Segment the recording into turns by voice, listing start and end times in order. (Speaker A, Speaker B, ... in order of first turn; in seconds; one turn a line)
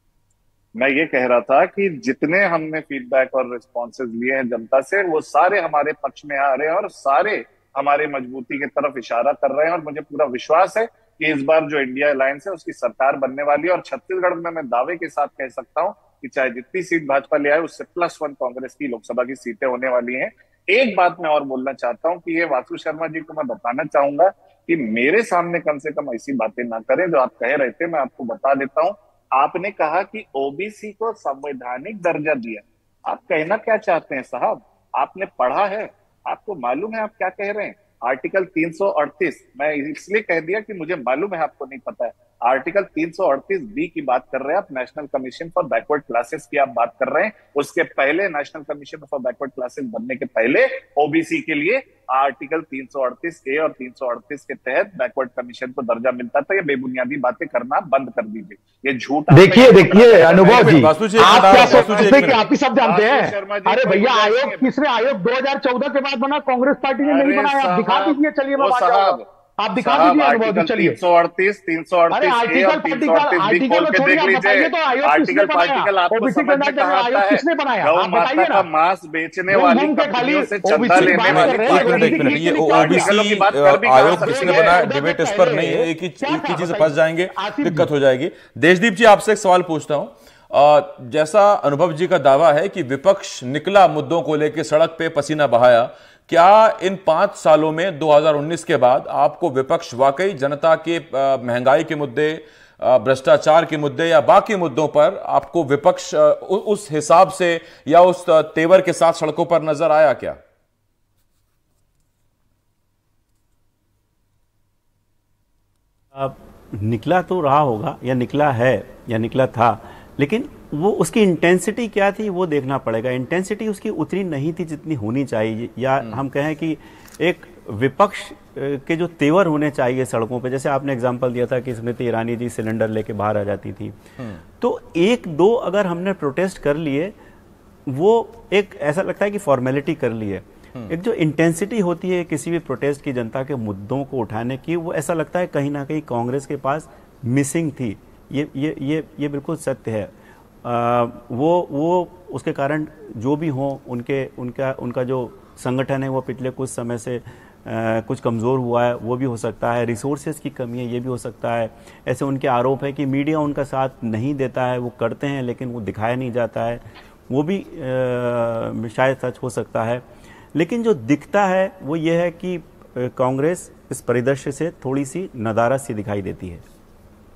Speaker A: 0.8-64.7
Speaker B: 59.3-71.0
Speaker C: 60.4-62.4
Speaker A: 67.0-69.2
Speaker A: 69.8-84.8
Speaker B: 72.1-78.6
Speaker B: 79.5-83.1
Speaker C: 80.9-110.4
Speaker B: 84.0-87.9
Speaker D: 116.1-137.1
Speaker D: 137.9-150.1
Speaker D: 150.6-176.6